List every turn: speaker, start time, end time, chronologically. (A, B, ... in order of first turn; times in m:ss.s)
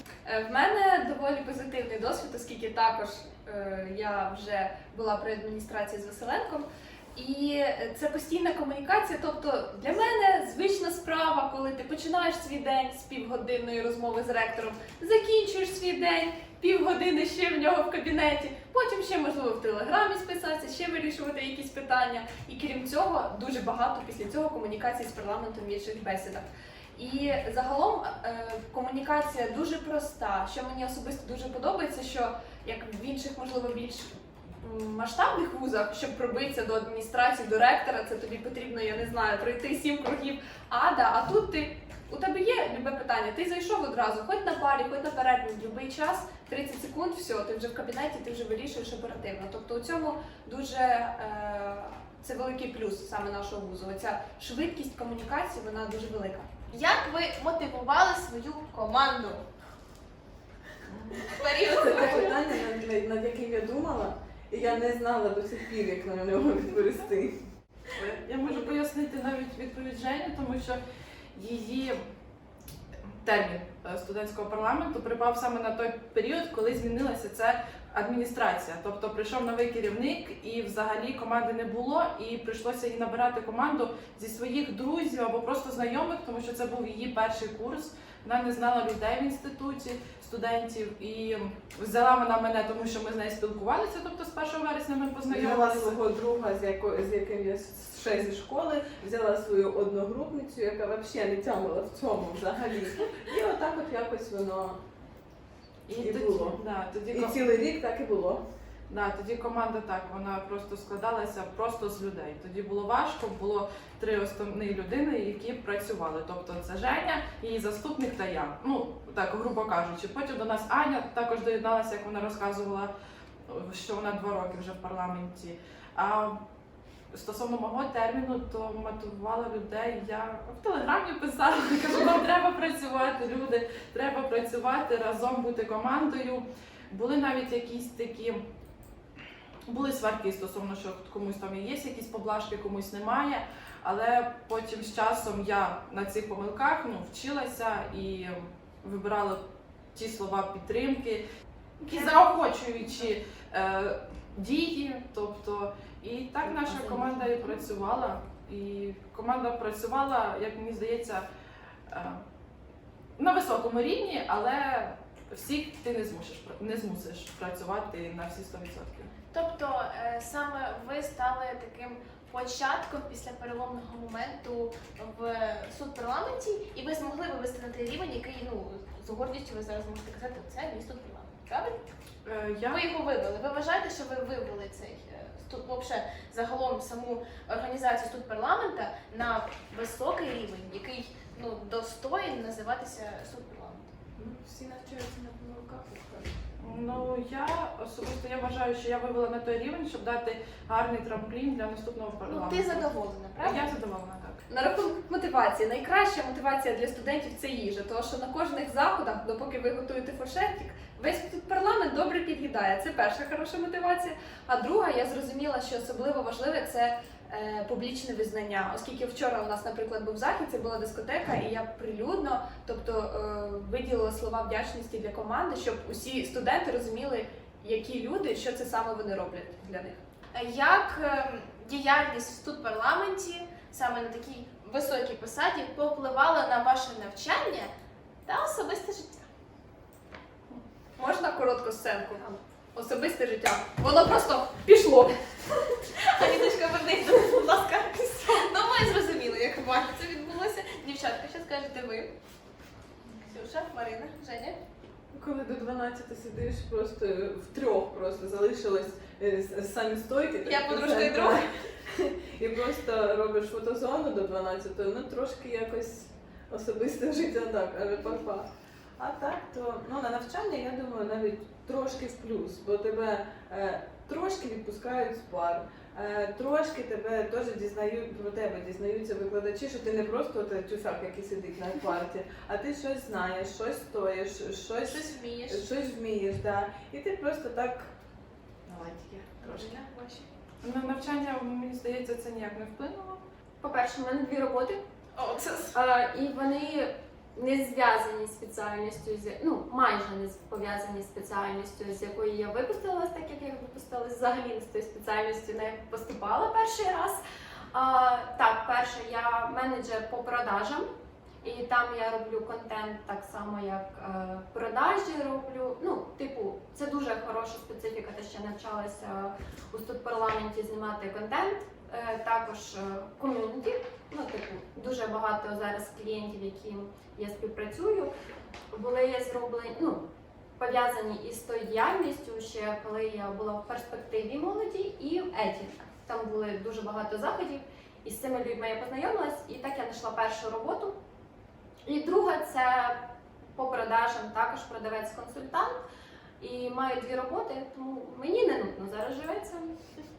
0:00.2-0:56.5 A
0:56.7-0:59.4 B
1:00.8-1:01.5 C
1:01.3-1:02.4 B
1:01.8-1:07.4 D
1:08.0-1:10.8 C
1:11.3-1:12.0 C
1:13.2-1:36.0 C
1:35.3-1:44.8 D
1:45.9-1:47.5 C
1:46.0-1:46.6 D
1:47.1-1:48.4 D
1:48.9-2:02.9 C
2:03.5-2:06.4 C
2:07.1-2:18.4 C
2:19.7-2:29.4 C
2:30.0-2:31.2 C
2:31.8-2:41.3 C
2:36.5-2:37.4 E
2:41.9-2:42.2 C
2:43.2-2:49.1 C
2:49.3-3:01.8 B
3:02.2-3:02.8 C
3:02.7-3:13.9 B
3:14.2-3:16.3 D
3:16.6-3:22.9 C
3:22.2-3:23.7 B
3:23.4-3:24.4 C
3:24.5-3:50.0 A
3:50.3-3:57.7 B
3:58.3-3:59.3 B
4:01.0-4:05.1 A
4:06.0-4:12.1 B
4:13.2-4:14.6 B
4:15.1-4:28.5 D
4:20.4-4:21.5 B
4:29.0-4:47.9 D
4:44.8-4:45.7 B
4:48.7-4:49.9 D
4:49.4-4:50.3 B
4:50.6-4:53.2 C
4:53.6-4:54.8 E
4:55.2-4:55.7 B
4:55.7-5:07.2 E
5:07.7-5:10.9 E
5:11.4-5:28.1 E
5:28.7-5:30.0 E
5:30.6-5:41.0 E
5:41.9-5:43.0 E
5:43.6-5:45.8 E
5:46.4-5:49.7 E